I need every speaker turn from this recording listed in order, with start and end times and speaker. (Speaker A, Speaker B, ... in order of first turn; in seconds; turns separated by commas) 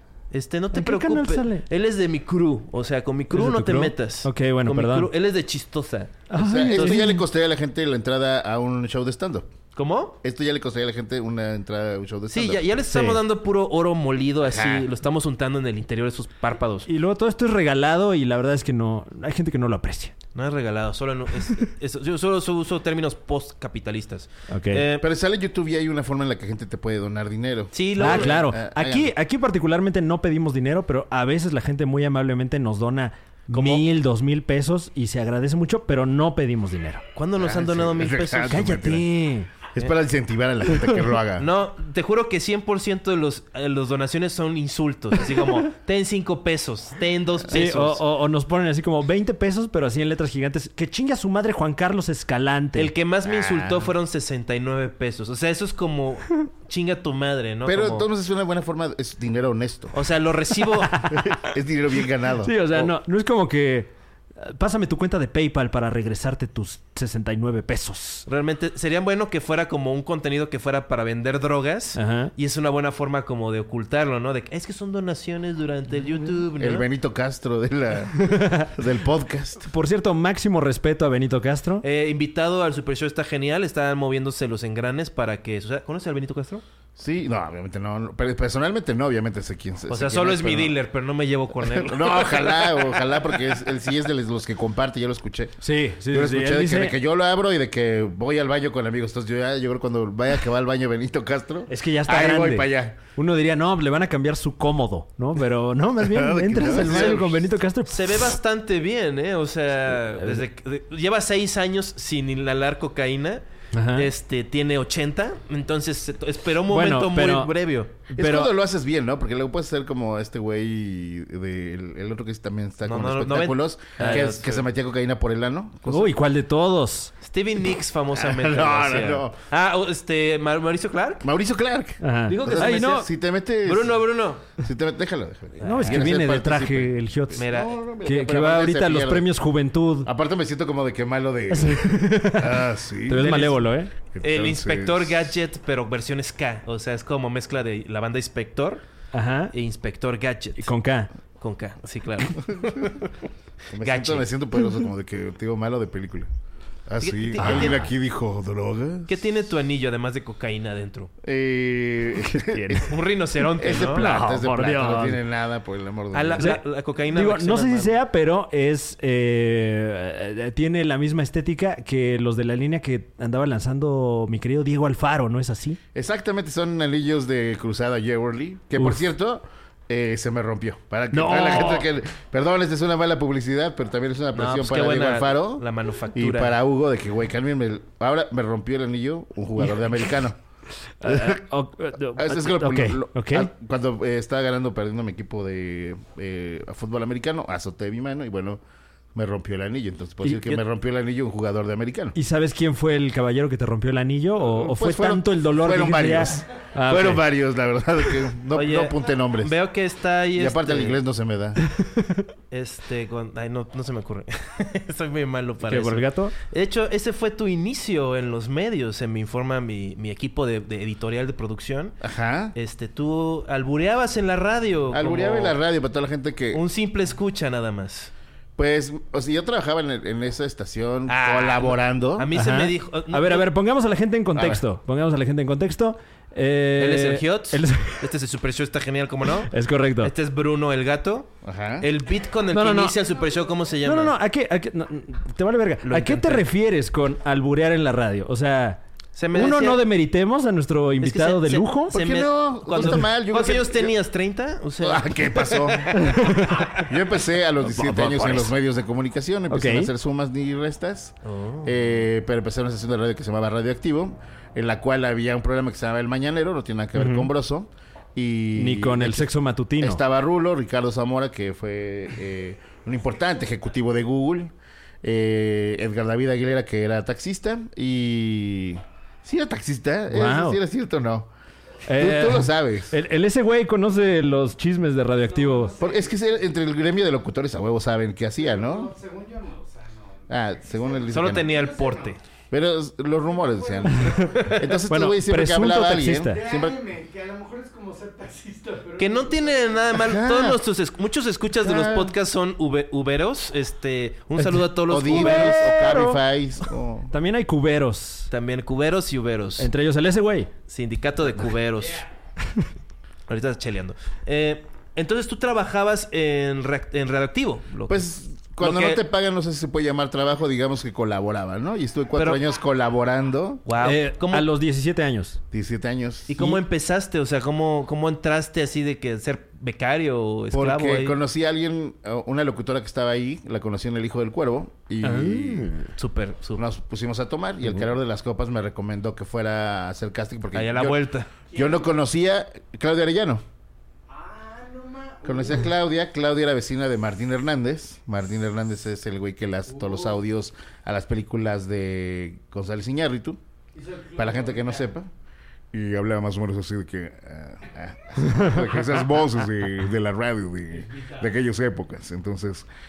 Speaker A: 0.3-7.0, Speaker B: 0.7-1.6, Speaker B: 3.3-5.1, Speaker B: 6.3-7.2, Speaker C: 6.4-9.5, Speaker A: 9.8-10.2, Speaker C: 10.2-12.7, Speaker A: 12.3-16.9, Speaker B: 12.9-13.2, Speaker C: 14.4-14.9, Speaker B: 16.9-20.1, Speaker A: 20.4-25.1, Speaker B: 24.5-24.8, Speaker C: 25.0-29.1, Speaker A: 27.7-28.4, Speaker B: 28.0-37.0, Speaker A: 33.5-33.9, Speaker A: 37.2-38.8, Speaker C: 37.4-39.0, Speaker B: 38.5-39.5, Speaker C: 39.7-41.5, Speaker A: 41.4-48.0, Speaker B: 47.5-52.9, Speaker A: 52.8-58.1, Speaker C: 53.2-53.9, Speaker C: 57.7-60.0, Speaker A: 59.9-61.1, Speaker B: 60.9-61.2, Speaker C: 61.1-62.9, Speaker B: 62.4-68.3, Speaker A: 68.3-76.9, Speaker B: 72.0-72.3, Speaker C: 76.6-79.7, Speaker B: 78.2-78.7, Speaker B: 79.6-81.8, Speaker A: 81.8-86.6, Speaker C: 87.0-90.8, Speaker A: 89.9-92.8, Speaker C: 91.6-103.0, Speaker B: 95.6-97.0, Speaker B: 101.7-108.3, Speaker C: 105.9-107.3, Speaker A: 106.6-113.4, Speaker B: 110.2-110.5, Speaker B: 113.7-114.1, Speaker A: 114.0-118.0, Speaker B: 116.7-117.5, Speaker B: 118.1-118.5, Speaker C: 118.2-126.2, Speaker A: 122.9-124.6, Speaker B: 124.0-124.3, Speaker B: 125.9-127.1, Speaker A: 127.2-131.3, Speaker C: 128.1-129.4, Speaker C: 131.2-134.0, Speaker B: 132.0-133.1, Speaker A: 132.3-133.1, Speaker A: 133.6-134.5, Speaker C: 134.6-139.3, Speaker A: 135.6-136.1, Speaker B: 135.6-137.5, Speaker A: 137.4-137.8, Speaker B: 138.0-140.1, Speaker C: 140.1-143.3, Speaker B: 141.5-143.9, Speaker A: 143.1-148.8, Speaker C: 144.1-145.2, Speaker B: 149.1-149.5, Speaker A: 149.5-150.7, Speaker B: 150.6-151.1, Speaker A: 151.4-153.0, Speaker C: 152.6-152.9, Speaker C: 153.7-156.3, Speaker A: 153.8-154.3, Speaker C: 156.9-159.2, Speaker A: 157.0-157.9, Speaker B: 157.4-157.8, Speaker A: 159.1-161.1, Speaker C: 161.2-162.9, Speaker B: 162.4-162.9, Speaker A: 162.9-164.1, Speaker C: 163.6-166.6, Speaker B: 163.8-165.2, Speaker A: 166.1-168.0, Speaker B: 166.4-175.8, Speaker C: 175.9-190.4, Speaker B: 181.1-181.9, Speaker A: 184.3-186.5, Speaker B: 191.0-193.5, Speaker C: 191.0-191.4, Speaker C: 192.2-198.6, Speaker C: 199.1-202.2, Speaker B: 202.2-207.3, Speaker C: 204.4-209.6, Speaker A: 208.5-211.0, Speaker C: 210.3-211.6, Speaker B: 211.7-212.2, Speaker A: 212.5-222.0, Speaker B: 215.6-216.3, Speaker C: 222.0-222.6, Speaker A: 222.6-225.6, Speaker C: 224.9-226.6, Speaker A: 226.5-228.1, Speaker C: 228.6-232.3, Speaker A: 231.1-233.5, Speaker B: 232.3-238.1, Speaker C: 234.3-234.6, Speaker A: 236.8-244.2, Speaker B: 239.5-240.1, Speaker C: 241.4-241.9, Speaker B: 242.5-243.0, Speaker B: 243.8-248.8, Speaker A: 245.8-246.5, Speaker A: 249.2-249.8, Speaker B: 249.3-251.9, Speaker A: 251.0-256.3, Speaker C: 251.9-254.0, Speaker C: 254.8-255.9, Speaker B: 255.9-256.9, Speaker C: 256.8-281.3, Speaker B: 257.6-258.5, Speaker B: 259.5-259.9, Speaker A: 261.2-261.9, Speaker B: 266.9-267.3, Speaker B: 268.6-270.0, Speaker B: 280.1-280.6, Speaker B: 281.9-285.8, Speaker C: 281.9-282.9, Speaker D: 285.3-286.4, Speaker C: 285.8-288.9, Speaker D: 288.4-292.2, Speaker C: 290.3-291.5, Speaker A: 291.1-292.2, Speaker C: 292.5-296.8, Speaker D: 293.3-294.6, Speaker B: 294.0-296.4, Speaker A: 294.2-294.8, Speaker D: 296.3-300.0, Speaker A: 299.0-305.6, Speaker C: 299.9-300.6, Speaker C: 301.6-302.1, Speaker B: 304.4-306.2, Speaker C: 304.9-307.1, Speaker B: 307.1-308.3, Speaker A: 308.3-309.7, Speaker B: 309.6-310.5, Speaker A: 310.7-312.1, Speaker A: 313.3-318.1, Speaker C: 317.9-323.6, Speaker A: 318.6-319.0, Speaker A: 322.2-322.4, Speaker A: 323.7-324.5, Speaker B: 323.8-325.4, Speaker C: 325.5-326.4, Speaker A: 326.3-331.2, Speaker C: 330.5-335.8, Speaker B: 335.0-335.8, Speaker A: 336.0-336.6, Speaker C: 336.6-341.0, Speaker A: 340.5-341.3, Speaker D: 341.5-341.9, Speaker C: 341.5-343.4, Speaker D: 344.1-345.7, Speaker C: 345.2-353.4, Speaker D: 349.7-350.2, Speaker D: 353.7-354.9, Speaker C: 354.2-355.1, Speaker C: 355.7-362.7, Speaker D: 360.8-361.3